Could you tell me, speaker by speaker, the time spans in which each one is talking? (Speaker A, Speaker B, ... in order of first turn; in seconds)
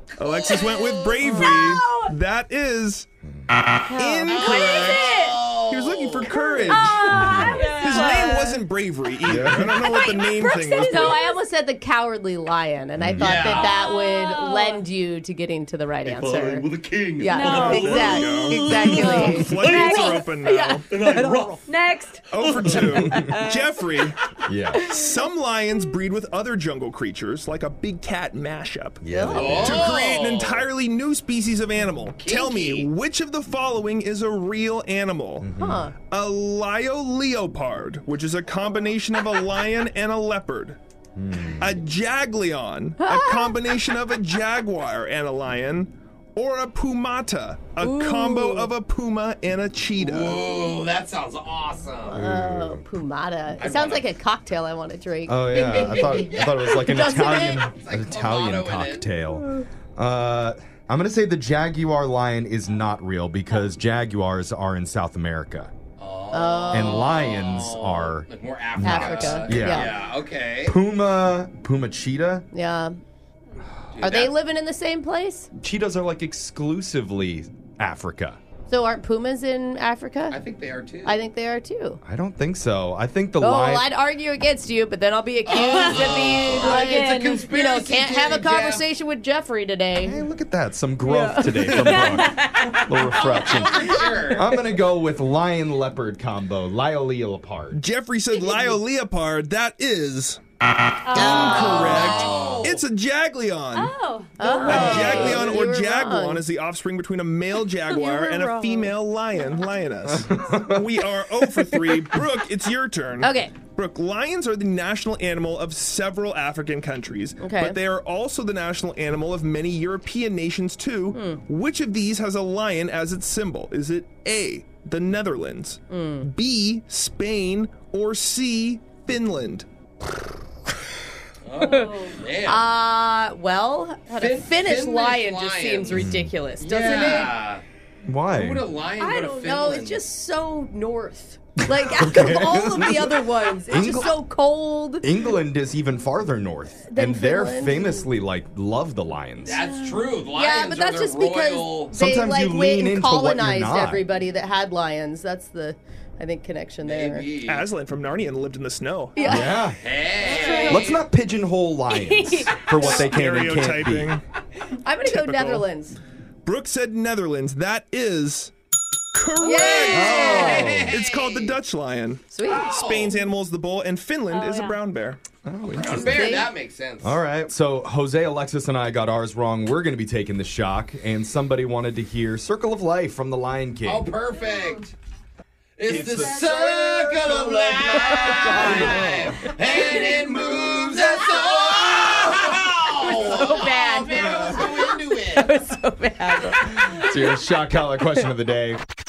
Speaker A: 0.2-3.1, 3.9-11.2, 17.4-20.9, 22.3-24.1, 24.8-35.5, 36.1-40.8, 41.6-50.5, 97.7-100.4, 101.1-103.9, 104.6-129.7, 157.4-159.2, 162.8-164.2, 165.0-165.7, 166.4-168.5, 169.1-175.2
Speaker B: 0.2-2.1, 4.2-5.4, 6.3-8.6, 9.8-11.4, 13.5-14.8, 17.2-20.3, 21.6-23.6, 85.6-87.4, 91.8-92.8, 98.3-98.7, 101.0-102.5, 103.7-105.3, 107.9-108.9, 131.6-132.2, 160.4-160.8, 161.9-162.7, 174.3-174.8
Speaker C: 4.1-4.4, 10.8-21.6, 29.1-29.5, 35.6-35.9, 43.0-43.5, 47.8-48.7, 52.0-57.7, 66.3-67.1, 68.8-69.9, 72.5-73.0, 74.0-75.5, 78.7-80.4, 81.0-82.0, 83.4-90.2, 91.0-92.3, 104.4-106.4, 113.2-113.6, 117.4-117.8, 121.1-121.4, 125.9-126.3, 131.6-131.9, 132.4-137.3, 139.0-145.1, 146.9-148.1, 149.8-157.3, 159.2-159.6, 160.2-160.9, 164.8-166.0, 169.4-170.8, 172.3-172.8, 175.8-176.5, 188.0-189.0, 189.7-191.3, 193.0-196.9
Speaker D: 4.4-6.3, 13.2-13.7, 16.9-17.2, 20.9-21.6, 29.3-30.7, 32.1-32.9, 50.0-52.2, 53.6-54.1, 55.5-59.1, 66.0-70.7, 73.9-74.3, 80.3-81.2, 85.5-88.8, 93.1-94.5, 101.2-102.8, 131.4-132.7, 134.1-137.6, 138.3-140.0, 149.4-151.9, 156.8-157.6, 159.8-161.0, 169.6-171.6, 172.5-173.1, 175.7-177.2, 183.8-184.9, 185.8-195.5
Speaker E: 7.1-7.7, 9.2-9.9, 13.0-13.4, 22.8-23.3, 24.4-24.9, 29.0-29.9, 35.4-35.9, 41.1-41.8, 52.1-52.8, 55.3-65.7, 66.7-69.9, 70.6-72.4, 75.6-78.4, 82.0-83.9, 90.0-97.8, 110.1-110.8, 135.9-136.3, 138.1-138.7, 141.7-144.1, 145.0-149.6, 151.9-154.0, 159.2-159.8, 160.7-164.2, 169.9-170.9, 175.4-176.3, 177.0-184.1, 185.8-189.6, 194.2-194.5, 196.8-198.8